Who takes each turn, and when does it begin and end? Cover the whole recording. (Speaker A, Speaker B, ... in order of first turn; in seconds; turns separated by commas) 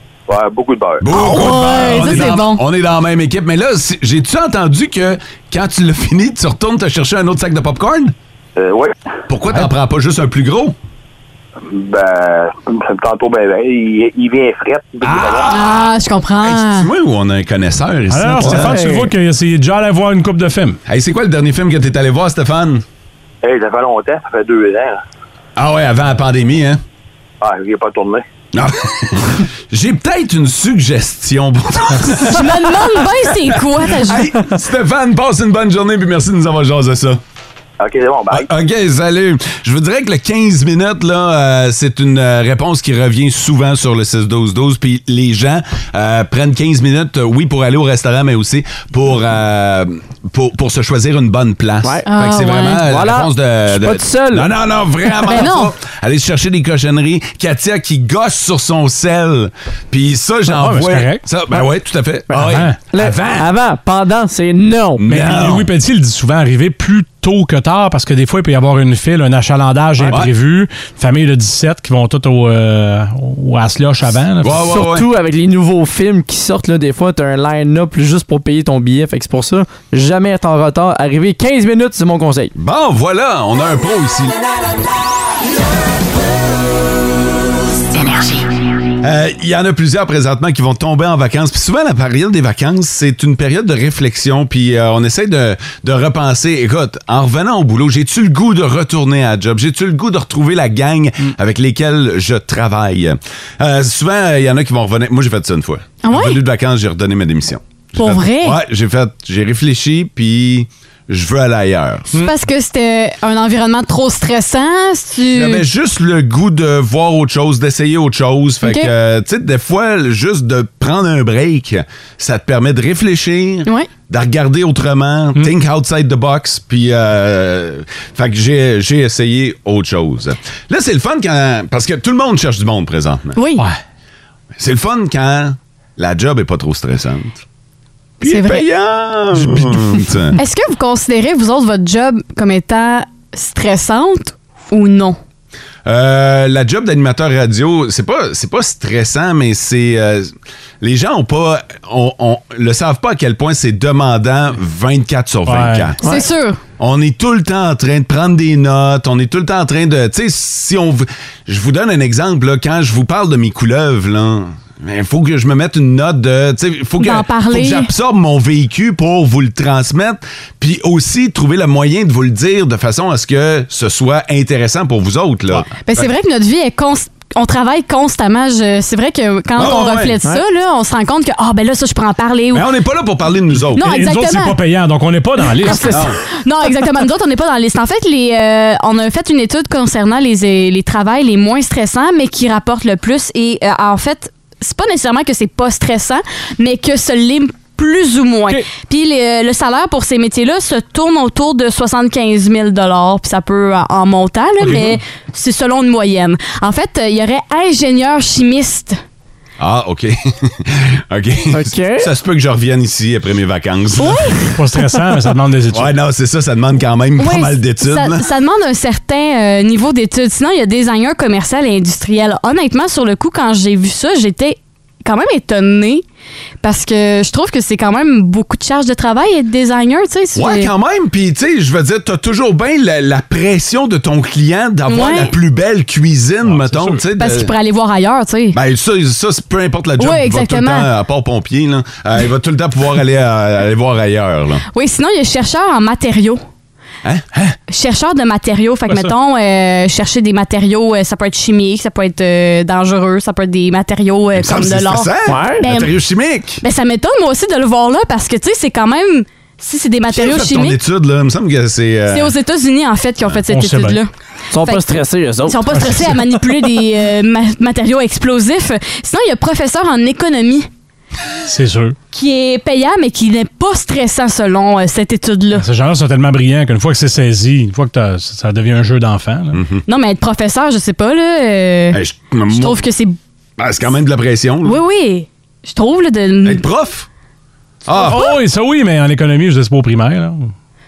Speaker A: 0.3-1.1, Speaker B: 1.0-8.2, Speaker C: 1.1-2.6, Speaker A: 8.6-8.9, Speaker B: 9.3-10.8, Speaker A: 11.6-15.6, Speaker B: 15.0-15.9, Speaker C: 15.5-16.9, Speaker B: 16.4-18.8, Speaker D: 18.1-20.8, Speaker E: 18.4-19.1, Speaker B: 20.9-22.9, Speaker A: 23.4-25.0, Speaker B: 25.6-26.8, Speaker A: 27.4-28.2, Speaker B: 28.5-37.2, Speaker C: 32.1-34.3, Speaker A: 37.8-38.5, Speaker B: 38.3-63.5, Speaker C: 52.1-52.8, Speaker E: 52.8-54.5, Speaker C: 55.2-55.7, Speaker D: 60.5-61.2, Speaker E: 62.3-65.0, Speaker D: 62.4-62.8, Speaker B: 65.0-65.7, Speaker D: 65.1-74.6, Speaker B: 70.0-70.3, Speaker B: 74.4-75.1, Speaker E: 74.6-82.5, Speaker B: 82.6-84.3, Speaker B: 89.0-112.3, Speaker C: 106.0-106.4, Speaker C: 108.0-108.6, Speaker C: 112.1-115.7, Speaker B: 115.2-133.4, Speaker C: 118.6-118.9, Speaker C: 133.3-133.7, Speaker B: 134.6-137.4, Speaker B: 138.2-140.4, Speaker C: 138.2-138.7, Speaker C: 140.4-145.2, Speaker B: 145.8-156.0, Speaker D: 155.5-155.9, Speaker C: 156.0-156.6, Speaker B: 156.8-176.0, Speaker C: 167.0-167.9, Speaker C: 175.8-182.7, Speaker B: 179.6-180.2, Speaker B: 182.5-183.9, Speaker C: 183.8-184.6, Speaker D: 183.8-186.1, Speaker C: 185.7-209.0, Speaker B: 185.8-186.2, Speaker B: 204.6-204.9, Speaker B: 209.6-214.5, Speaker E: 211.5-212.1, Speaker C: 214.0-214.4, Speaker D: 214.5-215.9, Speaker B: 215.7-218.2, Speaker C: 217.2-226.0, Speaker C: 226.6-230.7, Speaker B: 230.3-237.5, Speaker C: 234.9-235.4, Speaker D: 236.5-237.0, Speaker C: 237.2-238.6, Speaker B: 238.5-244.6, Speaker C: 240.0-240.9, Speaker C: 244.7-246.4, Speaker C: 247.7-255.9, Speaker D: 248.9-249.1, Speaker B: 254.3-256.6, Speaker E: 255.3-255.6, Speaker C: 256.6-260.8, Speaker B: 260.1-262.4, Speaker C: 262.1-264.1, Speaker D: 263.5-264.0, Speaker E: 264.5-266.1, Speaker C: 265.4-270.7, Speaker D: 265.8-266.1, Speaker D: 271.5-272.0, Speaker C: 272.1-275.7, Speaker D: 275.6-279.6, Speaker B: 279.5-279.8, Speaker C: 279.9-283.2, Speaker B: 281.9-282.8, Speaker B: 283.6-284.8, Speaker C: 284.6-286.6, Speaker B: 286.4-287.1, Speaker B: 287.9-288.3, Speaker D: 288.0-290.5